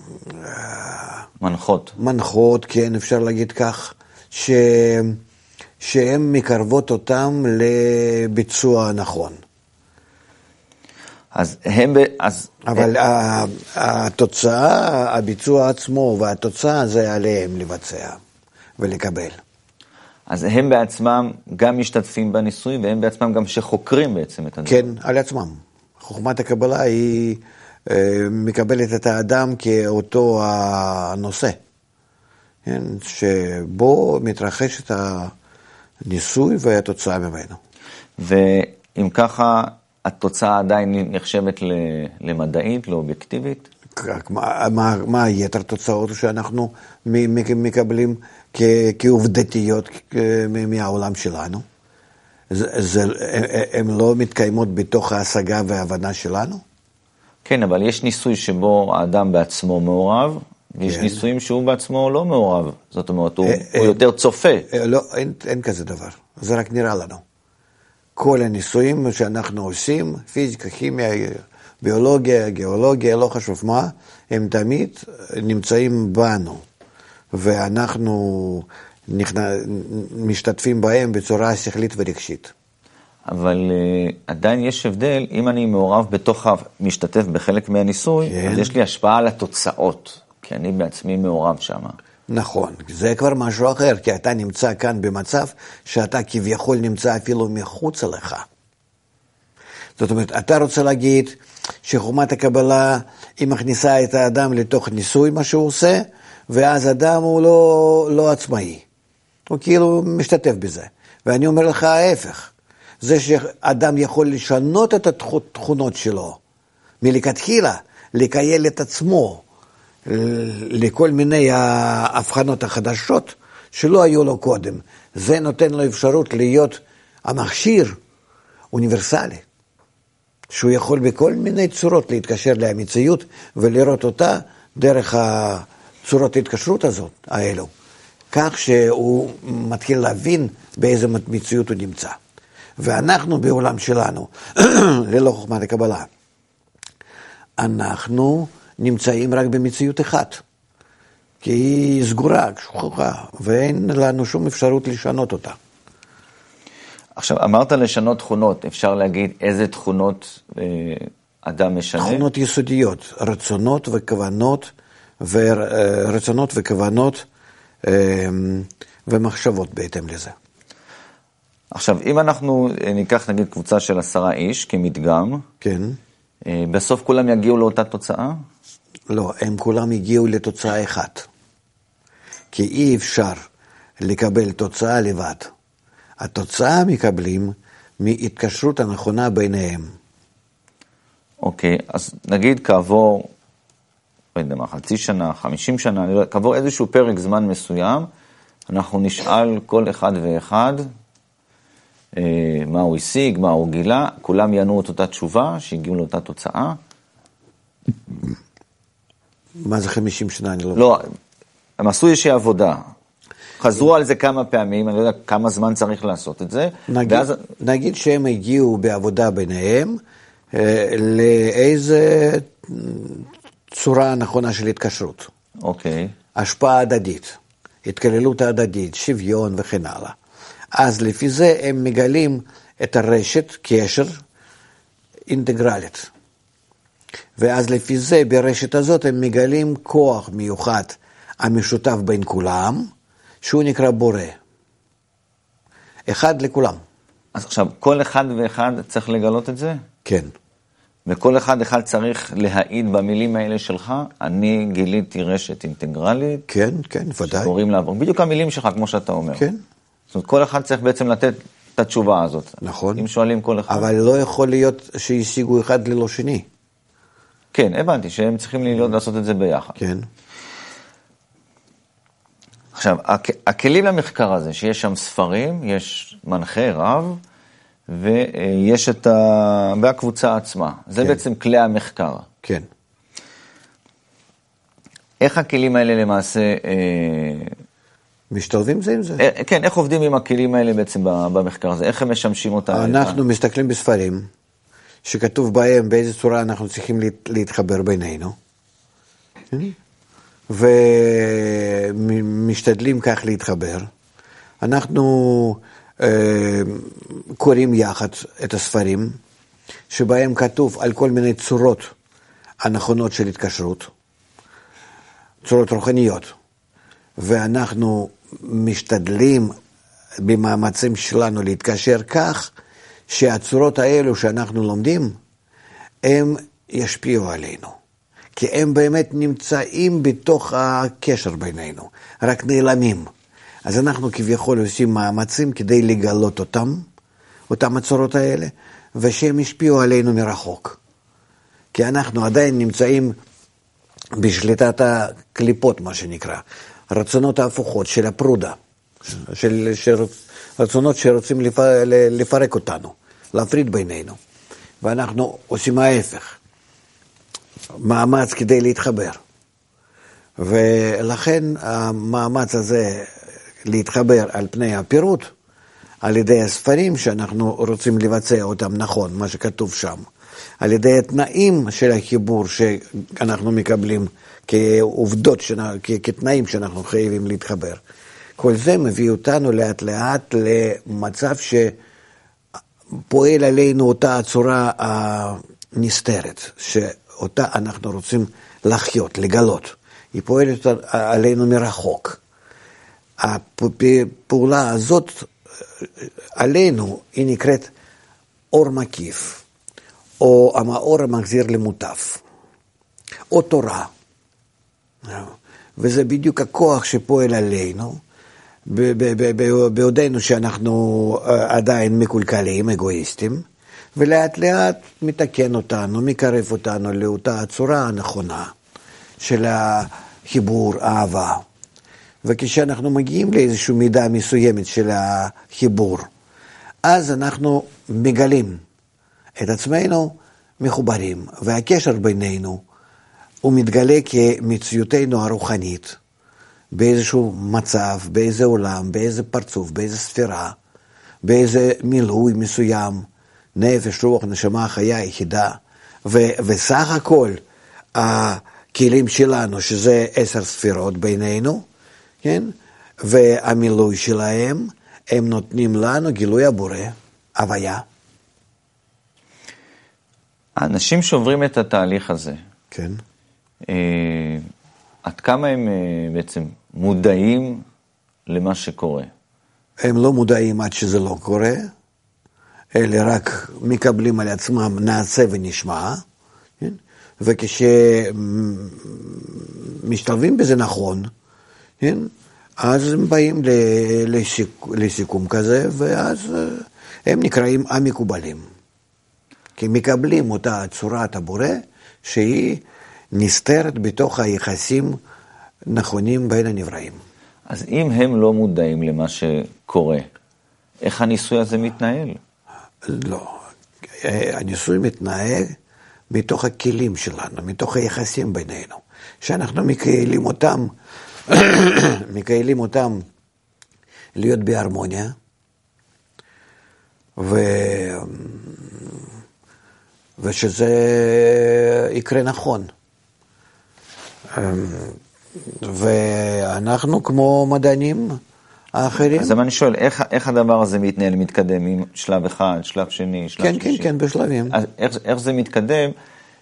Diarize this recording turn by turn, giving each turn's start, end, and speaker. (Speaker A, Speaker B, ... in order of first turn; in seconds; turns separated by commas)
Speaker A: 0.2-1.2, Speaker B: 1.4-1.9, Speaker A: 1.9-5.2, Speaker A: 5.8-9.4, Speaker B: 11.3-12.9, Speaker A: 12.6-18.2, Speaker A: 18.8-19.4, Speaker B: 20.3-24.9, Speaker A: 24.6-31.6, Speaker A: 32.6-35.3, Speaker A: 36.0-37.6, Speaker B: 38.2-43.6, Speaker A: 43.9-51.6, Speaker A: 52.5-56.6, Speaker B: 57.4-64.7, Speaker A: 60.9-61.2, Speaker A: 63.4-64.0, Speaker A: 64.7-67.2, Speaker A: 68.2-76.6, Speaker A: 77.3-82.5, Speaker B: 83.3-92.0, Speaker A: 88.2-88.7, Speaker A: 92.3-98.4, Speaker A: 100.0-108.8, Speaker A: 109.5-116.4, Speaker A: 117.0-119.4, Speaker A: 120.0-128.0, Speaker A: 128.7-129.4, Speaker A: 130.5-137.7, Speaker A: 138.3-142.2, Speaker A: 142.8-146.1, Speaker A: 147.6-150.4, Speaker A: 151.4-155.6, Speaker B: 157.2-162.2, Speaker A: 162.0-167.2, Speaker A: 167.8-170.3, Speaker B: 171.7-175.4, Speaker A: 175.6-176.0, Speaker B: 176.4-178.4, Speaker A: 179.1-181.3, Speaker A: 182.5-183.5, Speaker A: 184.0-185.5, Speaker A: 186.2-189.9, Speaker B: 191.4-193.3, Speaker B: 194.3-198.1, Speaker B: 198.7-200.9, Speaker B: 202.2-206.8, Speaker A: 209.6-211.0, Speaker B: 210.8-211.1, Speaker B: 211.8-212.8, Speaker B: 213.6-217.4, Speaker A: 216.9-220.0, Speaker A: 220.5-225.3, Speaker B: 225.6-226.1, Speaker A: 226.3-230.2, Speaker A: 230.8-234.1, Speaker A: 235.3-236.1, Speaker A: 237.4-242.9, Speaker A: 243.4-244.4, Speaker A: 246.1-246.8, Speaker B: 247.3-249.8, Speaker A: 250.0-250.3, Speaker B: 251.1-256.4, Speaker A: 256.5-257.5, Speaker B: 257.2-259.4, Speaker B: 260.1-263.9, Speaker A: 262.6-263.0, Speaker A: 263.7-266.4, Speaker B: 267.5-269.8, Speaker A: 269.8-270.1, Speaker B: 272.7-277.2, Speaker B: 277.9-282.3, Speaker B: 285.2-287.5, Speaker A: 288.3-289.2, Speaker B: 289.2-293.2, Speaker A: 292.7-294.3, Speaker A: 295.0-298.3, Speaker A: 300.5-303.9, Speaker A: 304.6-309.2, Speaker A: 309.9-311.9, Speaker A: 312.6-313.9, Speaker A: 315.4-316.3, Speaker A: 317.2-319.5, Speaker A: 320.2-322.5, Speaker A: 323.1-325.2, Speaker A: 326.0-327.7, Speaker A: 328.4-333.1, Speaker A: 333.6-336.9, Speaker A: 337.5-340.8, Speaker A: 341.7-343.1, Speaker A: 344.2-354.2, Speaker A: 354.8-356.4, Speaker A: 357.8-359.2, Speaker A: 360.4-365.3, Speaker A: 366.0-370.1, Speaker A: 370.6-377.8, Speaker A: 378.4-381.7, Speaker A: 383.0-392.2, Speaker A: 393.2-397.7, Speaker A: 398.5-399.4, Speaker A: 400.2-402.2, Speaker A: 403.3-403.9, Speaker A: 405.0-408.0, Speaker A: 408.6-413.4, Speaker A: 413.9-418.5, Speaker A: 419.2-421.4, Speaker A: 422.2-426.1, Speaker A: 426.8-428.6, Speaker A: 429.4-432.6, Speaker A: 433.4-436.0, Speaker A: 436.7-440.6, Speaker A: 441.2-447.4, Speaker A: 447.9-451.6, Speaker A: 452.2-457.8, Speaker B: 460.6-462.4, Speaker A: 462.7-463.0, Speaker B: 463.7-464.4, Speaker B: 465.0-467.6, Speaker B: 468.3-469.1, Speaker A: 469.8-471.7, Speaker A: 472.7-476.0, Speaker A: 476.6-481.1, Speaker A: 481.8-488.4, Speaker A: 489.6-495.0, Speaker A: 495.7-497.0, Speaker B: 497.5-500.1, Speaker B: 500.8-502.2, Speaker A: 502.8-503.4, Speaker A: 504.0-505.5, Speaker A: 506.1-510.7, Speaker A: 511.3-513.0, Speaker A: 514.1-515.1, Speaker A: 517.2-519.0, Speaker A: 520.2-522.7, Speaker A: 524.3-528.2, Speaker A: 528.7-529.4, Speaker B: 529.1-533.9, Speaker A: 533.4-534.5, Speaker B: 534.5-535.9